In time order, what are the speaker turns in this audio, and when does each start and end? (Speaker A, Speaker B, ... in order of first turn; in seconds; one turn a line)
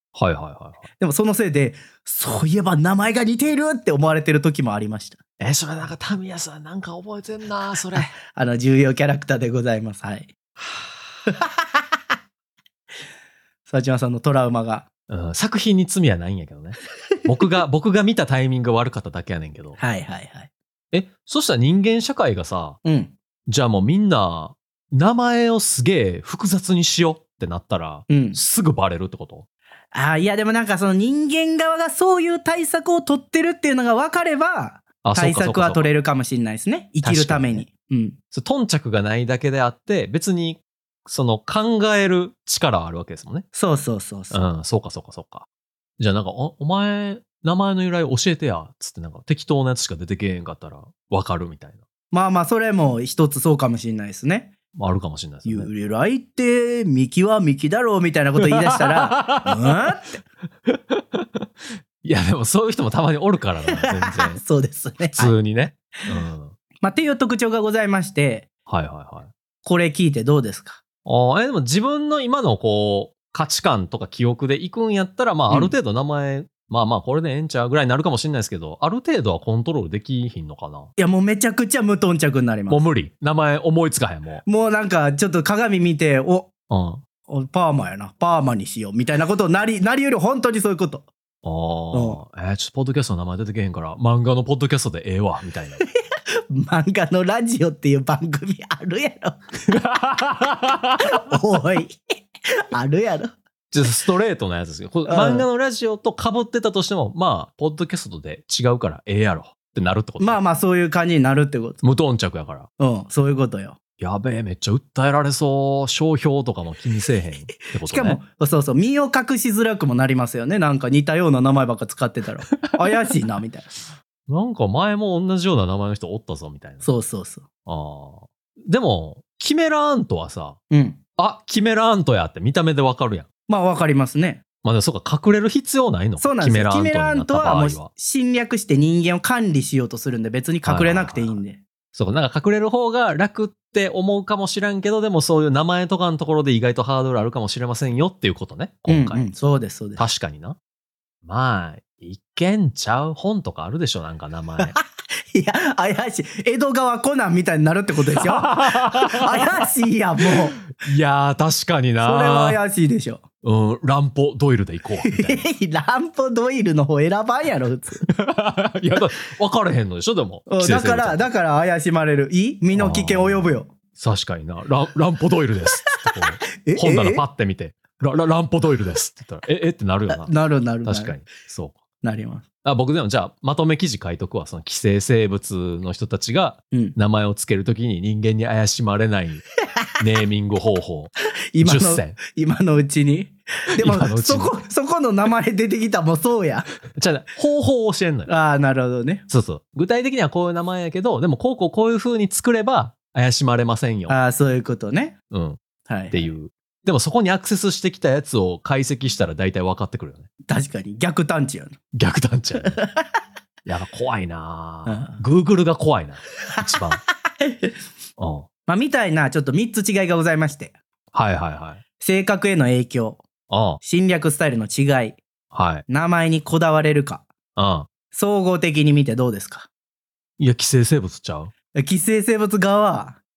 Speaker A: 0.1-0.8
Speaker B: 1.0-5.2
Speaker A: 5.4-8.1
Speaker B: 7.9-10.3
Speaker B: 11.3-11.6
Speaker B: 13.7-14.9
Speaker A: 15.1-19.8
Speaker B: 19.8-20.5
Speaker A: 20.9-22.8
Speaker B: 22.8-23.1
Speaker A: 23.5-29.4
Speaker B: 28.1-28.4
Speaker B: 29.9-38.2
Speaker A: 35.0-35.9
Speaker A: 37.0-37.6
Speaker A: 38.3-43.5
Speaker B: 43.5-44.4
Speaker A: 44.3-45.5
Speaker A: 46.0-51.8
Speaker B: 52.1-54.5
Speaker A: 54.7-55.7
Speaker B: 55.5-60.2
Speaker A: 58.4-59.8
Speaker A: 60.7-61.5
Speaker A: 62.0-64.4
Speaker B: 63.7-65.3
Speaker A: 65.1-66.5
Speaker B: 66.8-68.5
Speaker A: 68.7-69.3
Speaker B: 69.6-70.8
Speaker A: 71.0-80.9
Speaker B: 75.5-75.7
Speaker B: 81.0-82.8
Speaker A: 82.7-84.4
Speaker B: 84.4-86.5
Speaker A: 86.7-87.0
Speaker B: 87.3-91.1
Speaker A: 91.4-95.8
Speaker B: 91.9-92.2
Speaker B: 96.5-99.4
Speaker A: 99.7-101.1
Speaker B: 101.0-102.1
Speaker B: 102.7-103.3
Speaker A: 103.7-110.4
Speaker B: 105.1-105.5
Speaker B: 110.2-111.8
Speaker A: 111.8-112.7
Speaker B: 112.8-113.8
Speaker A: 114.0-118.2
Speaker B: 117.7-123.7
Speaker A: 124.3-126.9
Speaker B: 126.8-127.5
Speaker A: 127.7-130.6
Speaker B: 130.7-131.0
Speaker A: 131.2-133.2
Speaker B: 133.5-134.4
Speaker A: 134.6-137.9
Speaker B: 136.2-141.6
Speaker A: 140.6-141.4
Speaker A: 141.9-149.3
Speaker B: 148.9-150.1
Speaker A: 150.0-150.6
Speaker A: 151.2-154.7
Speaker B: 155.3-160.6
Speaker A: 158.2-159.4
Speaker A: 160.7-162.6
Speaker B: 162.0-163.2
Speaker A: 163.4-165.5
Speaker B: 165.0-168.1
Speaker A: 168.1-171.3
Speaker B: 170.5-173.7
Speaker A: 172.7-181.8
Speaker B: 176.5-177.2
Speaker B: 180.1-181.2
Speaker B: 182.0-182.4
Speaker A: 182.6-189.4
Speaker A: 190.0-192.2
Speaker B: 191.5-196.7
Speaker A: 193.8-194.6
Speaker A: 196.9-198.3
Speaker B: 198.2-199.2
Speaker A: 199.3-204.2
Speaker B: 204.1-205.2
Speaker A: 205.3-205.6
Speaker B: 205.9-206.3
Speaker A: 206.1-210.3
Speaker B: 210.5-211.8
Speaker A: 211.9-212.8
Speaker B: 212.6-213.1
Speaker A: 213.6-217.0
Speaker B: 214.8-215.2
Speaker B: 216.5-216.8
Speaker B: 217.4-217.7
Speaker A: 218.2-218.4
Speaker B: 218.7-220.7
Speaker A: 221.1-221.8
Speaker B: 222.0-223.2
Speaker A: 223.5-223.8
Speaker B: 223.8-225.2
Speaker A: 225.5-225.8
Speaker B: 225.9-227.3
Speaker A: 227.6-227.9
Speaker B: 228.1-229.7
Speaker A: 230.4-231.5
Speaker B: 231.7-233.2